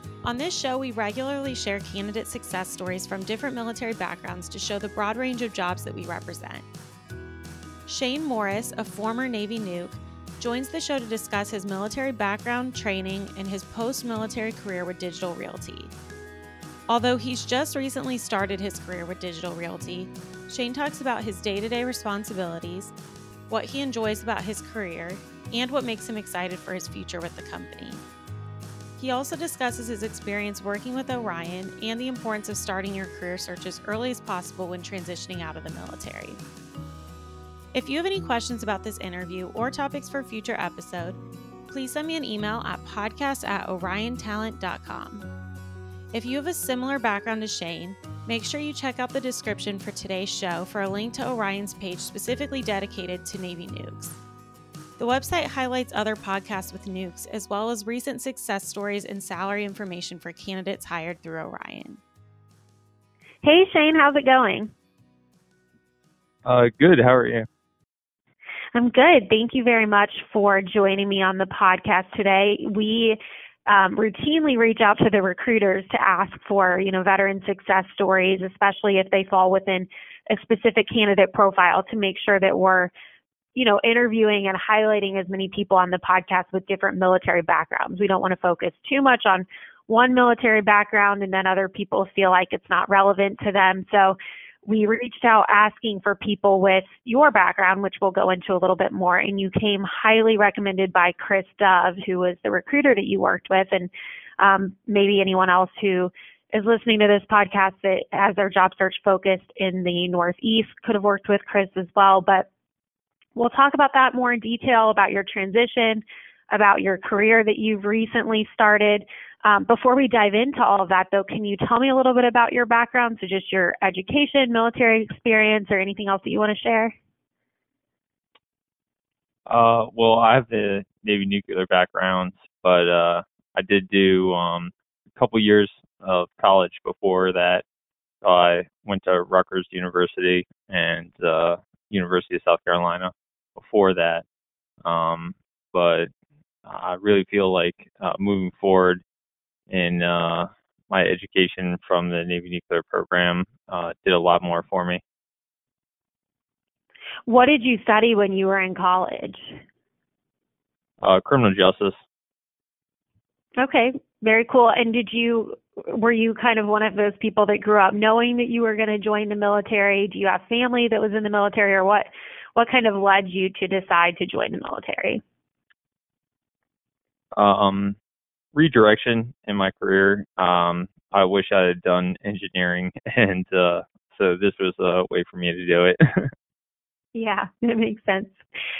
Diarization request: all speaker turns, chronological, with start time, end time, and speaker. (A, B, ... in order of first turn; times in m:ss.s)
0:00.2-0:06.7 A
0:07.9-0:15.9 A
0:16.9-0:22.9 A
0:23.5-0:28.0 A
0:29.0-0:36.4 A
0:37.7-0:41.2 A
0:41.7-0:45.3 A
0:46.1-0:54.2 A
0:55.0-1:02.0 A
1:03.4-1:04.7 B
1:06.4-1:07.5 C
1:08.8-1:22.9 B
1:23.6-1:52.5 B
1:53.4-2:07.0 B
2:09.5-2:17.6 C
2:18.2-2:24.2 C
2:24.8-2:26.1 C
2:26.6-2:29.0 C
2:29.7-2:35.0 C
2:37.3-2:39.6 B
2:41.0-2:42.0 C
2:43.6-2:55.2 B
2:57.4-2:58.0 C
2:58.5-3:06.3 C
3:07.2-3:08.4 B